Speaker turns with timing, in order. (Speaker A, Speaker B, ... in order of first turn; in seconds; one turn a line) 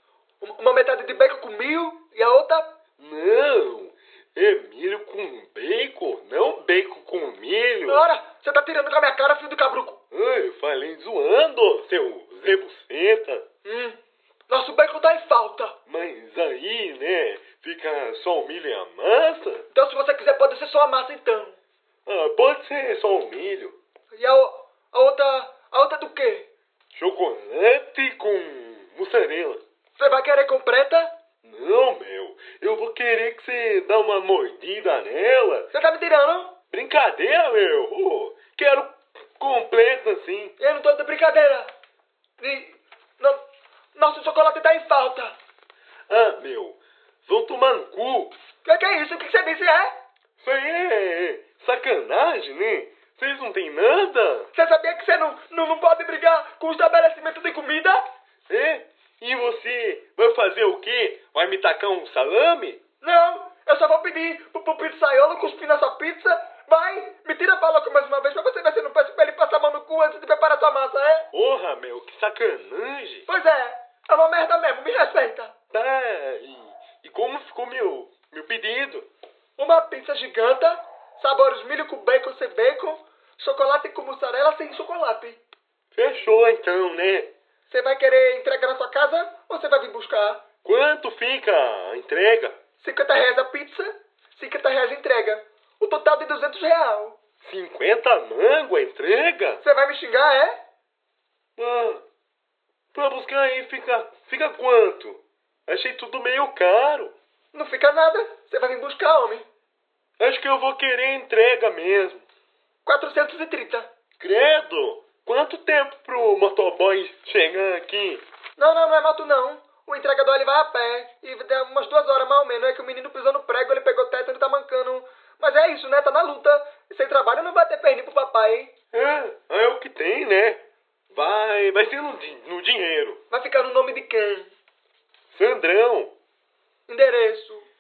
Speaker A: 0.4-2.7
Speaker B: 3.0-8.0
Speaker A: 7.9-10.0
Speaker B: 10.1-13.4
Speaker A: 13.6-14.0
Speaker A: 14.5-15.8
Speaker B: 15.9-19.6
Speaker A: 19.7-21.6
Speaker B: 22.1-23.8
Speaker A: 24.1-26.5
Speaker B: 26.9-29.6
Speaker A: 30.0-31.1
Speaker B: 31.4-35.7
Speaker A: 35.7-36.5
Speaker B: 36.7-40.5
Speaker A: 40.6-41.7
Speaker A: 42.4-43.4
Speaker A: 43.9-45.3
Speaker B: 46.1-48.3
Speaker A: 48.6-49.9
Speaker B: 50.4-54.5
Speaker A: 54.5-58.0
Speaker B: 58.5-62.8
Speaker A: 63.0-71.3
Speaker B: 71.3-73.3
Speaker A: 73.3-75.5
Speaker B: 75.7-79.0
Speaker A: 79.6-85.4
Speaker B: 85.9-87.3
Speaker A: 87.7-90.4
Speaker B: 90.6-92.6
Speaker A: 92.8-97.2
Speaker B: 97.4-99.6
Speaker A: 99.6-100.6
Speaker B: 101.6-102.0
Speaker B: 102.9-107.1
Speaker A: 107.5-109.5
Speaker B: 110.2-112.2
Speaker A: 112.8-113.9
Speaker B: 114.2-118.2
Speaker A: 118.6-128.7
Speaker B: 128.9-133.2
Speaker A: 133.3-134.5
Speaker B: 135.3-136.1
Speaker A: 136.9-137.7